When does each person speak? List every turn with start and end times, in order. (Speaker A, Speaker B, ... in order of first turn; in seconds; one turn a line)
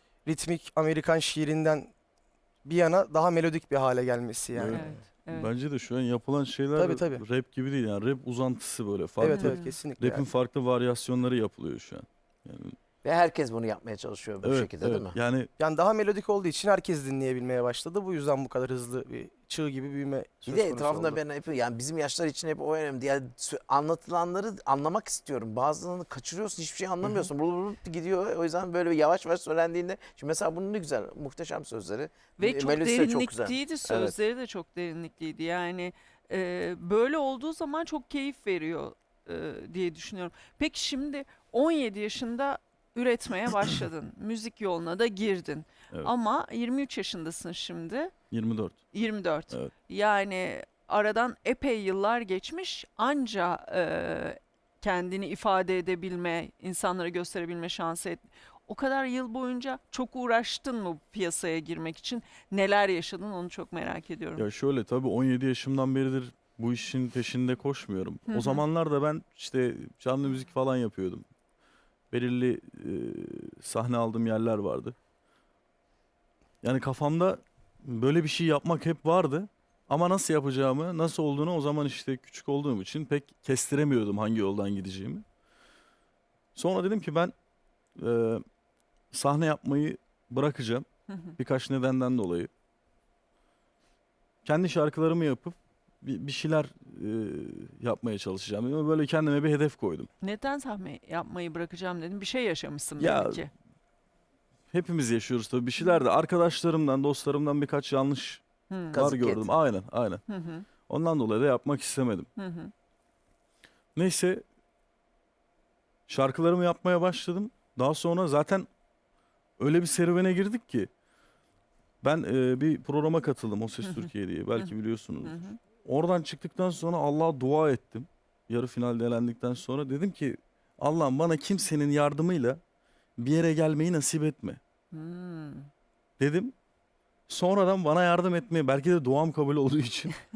Speaker A: 0.2-1.9
Speaker A: 2.6-4.9
Speaker B: 4.5-12.8
Speaker C: 4.7-5.5
Speaker A: 6.7-7.2
Speaker A: 9.2-10.2
Speaker C: 9.2-9.7
Speaker D: 13.0-15.2
Speaker B: 14.4-15.5
Speaker A: 15.6-21.2
Speaker D: 20.5-34.1
Speaker C: 32.4-48.1
Speaker B: 48.3-48.9
Speaker C: 48.9-64.5
Speaker B: 64.3-71.2
Speaker C: 68.3-68.6
Speaker B: 72.1-75.0
Speaker B: 76.6-85.2
Speaker B: 86.5-87.3
Speaker B: 88.0-88.4
Speaker B: 89.1-90.8
Speaker C: 91.1-91.3
Speaker B: 91.4-92.5
Speaker B: 94.4-100.1
Speaker C: 100.2-103.5
Speaker B: 103.0-103.5
Speaker B: 104.7-110.2
Speaker C: 108.7-109.0
Speaker D: 108.9-109.5
Speaker C: 110.3-110.7
Speaker B: 110.9-112.3
Speaker C: 112.3-112.7
Speaker B: 114.0-114.4
Speaker B: 116.1-118.7
Speaker B: 119.6-120.9
Speaker B: 122.0-132.6
Speaker C: 123.8-124.7
Speaker C: 125.2-125.6
Speaker B: 133.2-134.6
Speaker C: 134.9-135.7
Speaker B: 136.2-136.5
Speaker B: 137.3-140.2